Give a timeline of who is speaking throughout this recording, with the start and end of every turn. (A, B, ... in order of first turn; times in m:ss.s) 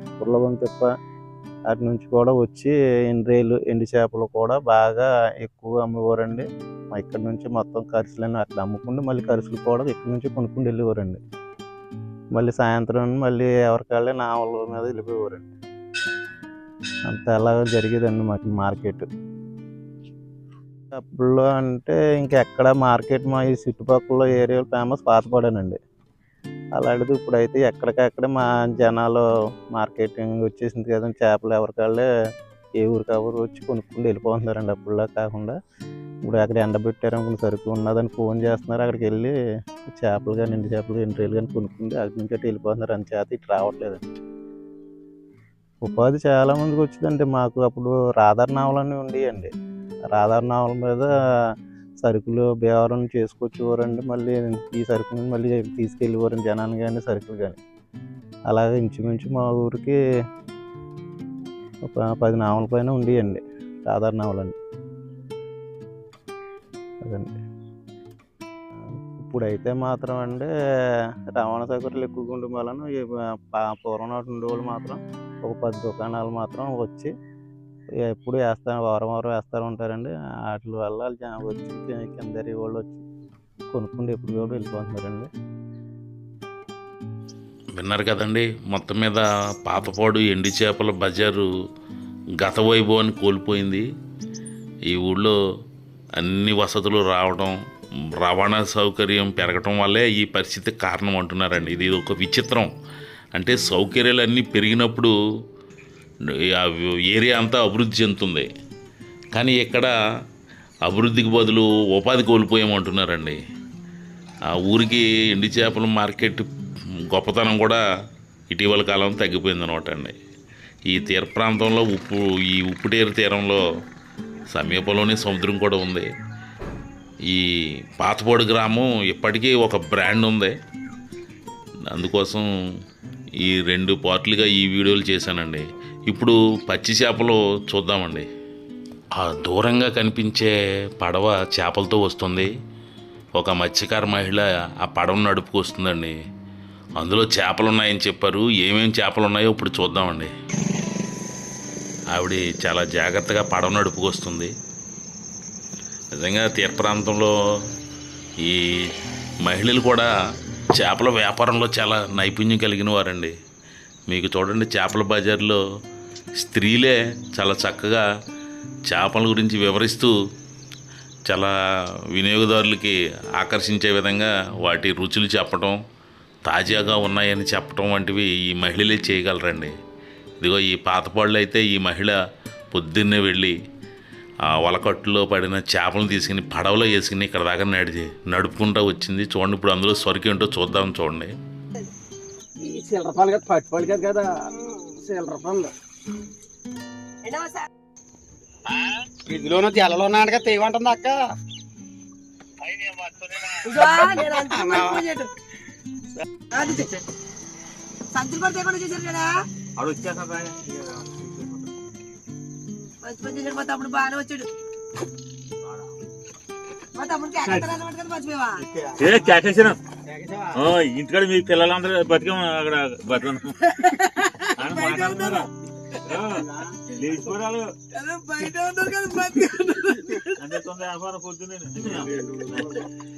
0:00.2-0:00.9 A
0:01.7-0:11.2 A
0:12.3-0:15.5 A
0:17.1-0:19.1 A
0:21.1-0:25.8 A
0:26.8-0:32.1 A
0:32.8-0:35.6 A
0:36.2-0:39.3 A
0:39.9-0:44.0 A
0:45.8-0:49.5 A
0:50.1-0:51.1 A
0:52.0-0:57.6 A
0:58.5-1:00.0 A
1:01.8-1:04.6 A
1:07.0-1:07.4 A
1:09.1-1:17.1 A
1:18.1-1:23.0 A
1:23.7-1:25.3 A
1:27.8-1:31.5 B
1:32.4-1:33.8 B
1:34.9-1:35.4 B
1:36.2-1:37.6 B
1:38.2-1:42.7 B
1:43.4-1:45.1 B
1:46.6-1:48.5 B
1:49.3-1:49.9 B
1:50.8-1:53.4 B
1:54.5-1:56.5 B
1:57.1-1:57.8 B
1:58.5-2:00.2 B
2:00.9-2:03.6 B
2:04.5-2:06.1 B
2:07.3-2:10.5 B
2:11.9-2:12.5 B
2:13.4-2:18.3 B
2:19.2-2:22.5 B
2:23.4-2:26.2 B
2:27.0-2:30.3 B
2:32.1-2:34.5 B
2:36.2-2:37.3 B
2:38.4-2:40.1 B
2:40.8-2:43.4 B
2:44.1-2:45.6 B
2:46.4-2:48.0 B
2:48.9-2:50.1 B
2:51.3-2:51.5 B
2:52.1-2:55.8 B
2:56.4-2:59.7 B
3:00.4-3:02.2 B
3:02.7-3:03.6 B
3:04.5-3:11.3 B
3:12.6-3:14.3 C
3:14.9-3:15.7 C
3:17.2-3:17.7 D
3:19.3-3:21.3 C
3:22.6-3:23.7 E
3:23.6-3:25.3 D
3:23.8-3:25.0 C
3:26.5-3:27.0 D
3:26.6-3:27.0 E
3:28.1-3:29.3 D
3:29.8-3:31.7 E
3:33.0-3:34.5 D
3:37.0-3:38.6 D
3:37.4-3:37.7 E
3:39.0-3:39.8 E
3:39.0-3:40.6 C
3:40.5-3:43.6 E
3:43.8-3:45.5 D
3:44.5-3:45.5 E
3:46.0-3:47.7 E
3:46.3-3:46.8 C
3:47.9-3:50.4 D
3:50.4-3:52.8 E
3:52.0-3:52.8 C